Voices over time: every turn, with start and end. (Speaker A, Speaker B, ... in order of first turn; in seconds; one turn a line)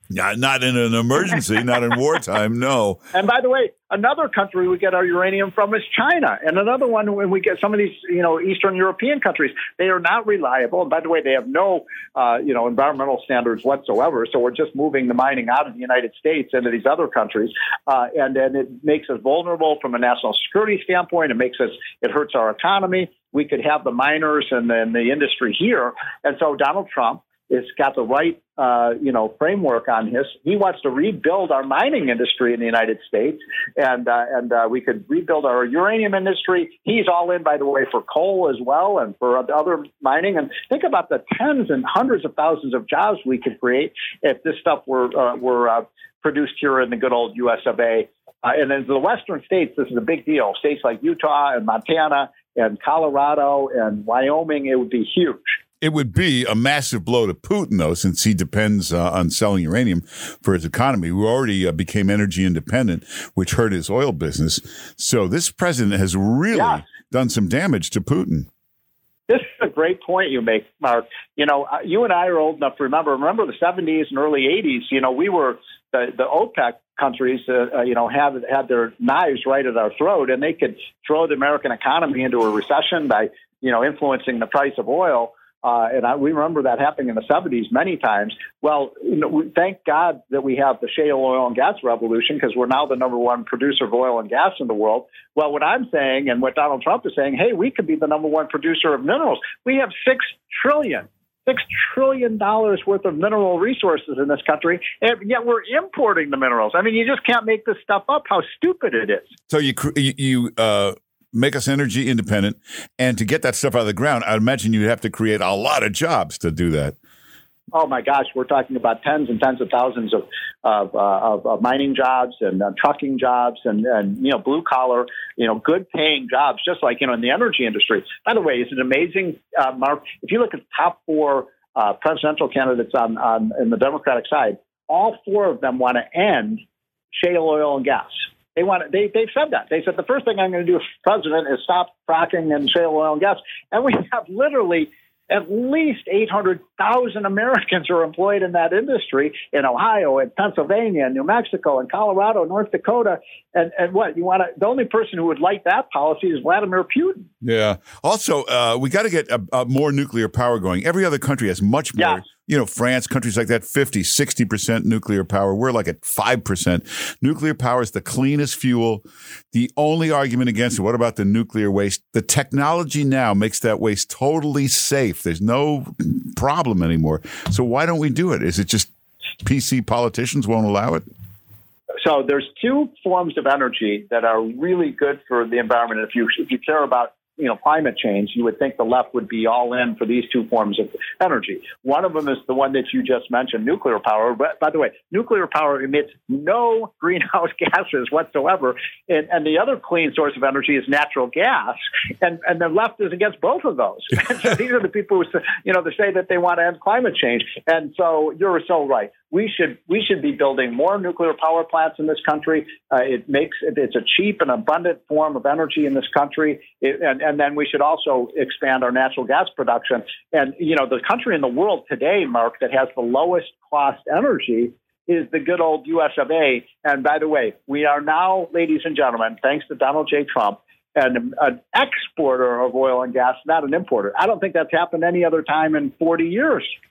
Speaker A: 0.1-3.0
Speaker B: 3.1-55.4
Speaker A: 55.8-68.5
Speaker B: 66.5-66.8
Speaker B: 69.3-109.3
Speaker A: 109.5-117.0
Speaker B: 117.7-136.6
Speaker B: 137.1-157.3
Speaker A: 157.4-178.9
Speaker B: 162.0-162.2
Speaker A: 179.4-181.1
Speaker B: 182.0-236.7